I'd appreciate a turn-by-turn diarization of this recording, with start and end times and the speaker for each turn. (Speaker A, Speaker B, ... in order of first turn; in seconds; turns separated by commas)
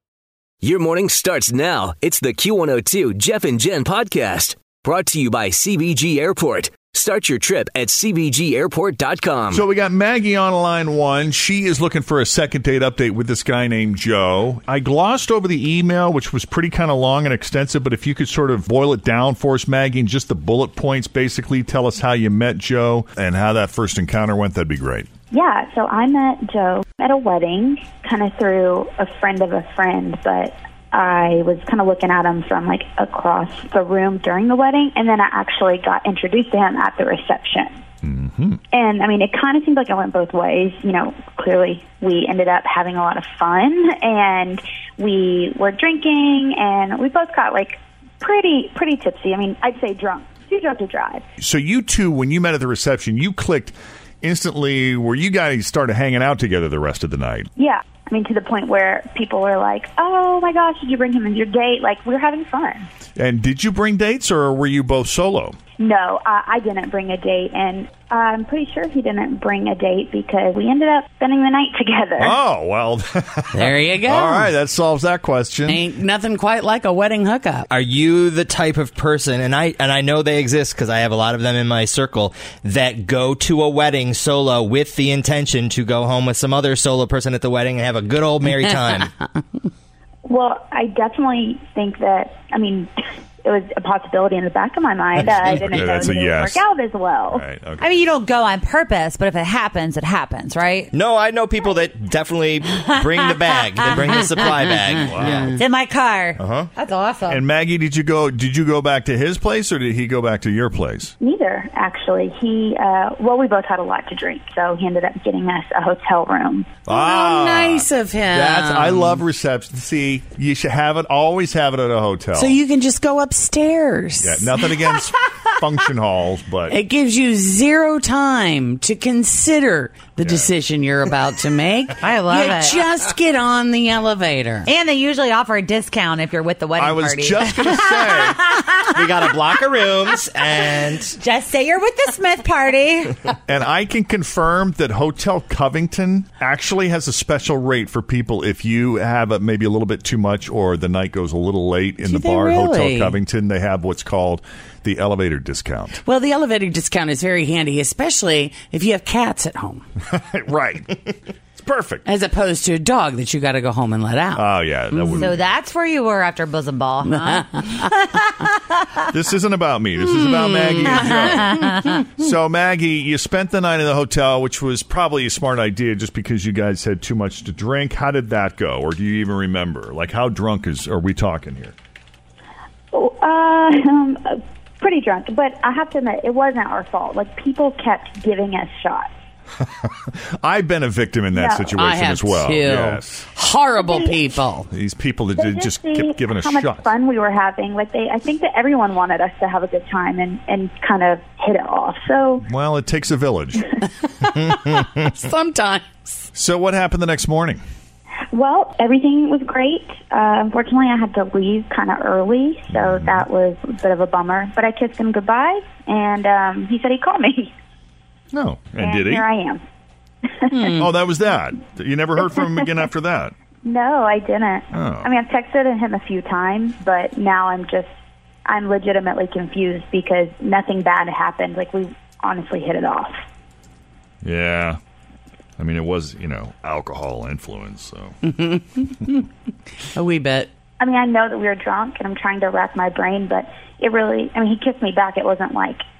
Speaker A: 0.6-9.6, Speaker B: 9.5-25.1, Speaker C: 25.3-37.7, Speaker B: 38.0-38.6, Speaker C: 38.7-51.2, Speaker B: 51.4-57.5, Speaker C: 57.5-62.9, Speaker B: 63.2-65.5, Speaker C: 65.8-72.3, Speaker B: 72.2-75.8, Speaker D: 73.5-74.5, Speaker D: 75.7-77.7, Speaker E: 77.7-89.1, Speaker C: 90.2-92.9, Speaker C: 93.4-97.4, Speaker B: 95.4-96.6, Speaker B: 97.3-98.1, Speaker F: 97.8-100.9, Speaker E: 100.9-105.6, Speaker F: 102.8-104.2, Speaker B: 105.0-105.5, Speaker F: 105.4-107.4, Speaker E: 106.4-106.7, Speaker B: 107.3-111.1, Speaker C: 111.2-116.7, Speaker B: 116.9-122.6, Speaker D: 116.9-119.2, Speaker D: 122.3-124.5, Speaker B: 124.2-126.8, Speaker D: 126.7-134.7, Speaker B: 130.2-130.5, Speaker F: 132.0-132.9, Speaker F: 134.7-139.3, Speaker B: 136.8-138.4, Speaker E: 138.9-141.2, Speaker F: 141.2-143.2, Speaker B: 143.4-156.0, Speaker D: 152.0-153.2, Speaker D: 156.0-159.8, Speaker B: 160.1-162.0, Speaker D: 162.1-164.5, Speaker B: 164.3-165.4, Speaker F: 165.2-168.8, Speaker D: 167.1-167.7, Speaker B: 169.1-181.7, Speaker D: 170.1-170.8, Speaker F: 170.9-171.9, Speaker C: 182.9-189.1, Speaker B: 189.6-193.2, Speaker C: 191.3-191.7, Speaker D: 191.8-194.7, Speaker C: 193.8-194.2, Speaker B: 194.7-196.9, Speaker C: 195.3-202.4, Speaker B: 202.4-203.7, Speaker D: 204.2-206.3, Speaker B: 206.3-207.6, Speaker C: 208.3-217.5, Speaker B: 212.7-213.2, Speaker B: 218.3-219.2, Speaker C: 218.8-219.6, Speaker C: 220.4-220.7, Speaker D: 220.5-220.8, Speaker B: 220.8-223.3, Speaker C: 222.3-222.6, Speaker C: 223.6-227.9, Speaker B: 224.7-225.1, Speaker C: 228.4-233.1, Speaker B: 234.2-234.8, Speaker B: 235.6-238.1, Speaker D: 238.2-239.2, Speaker D: 239.9-240.5, Speaker C: 240.8-245.8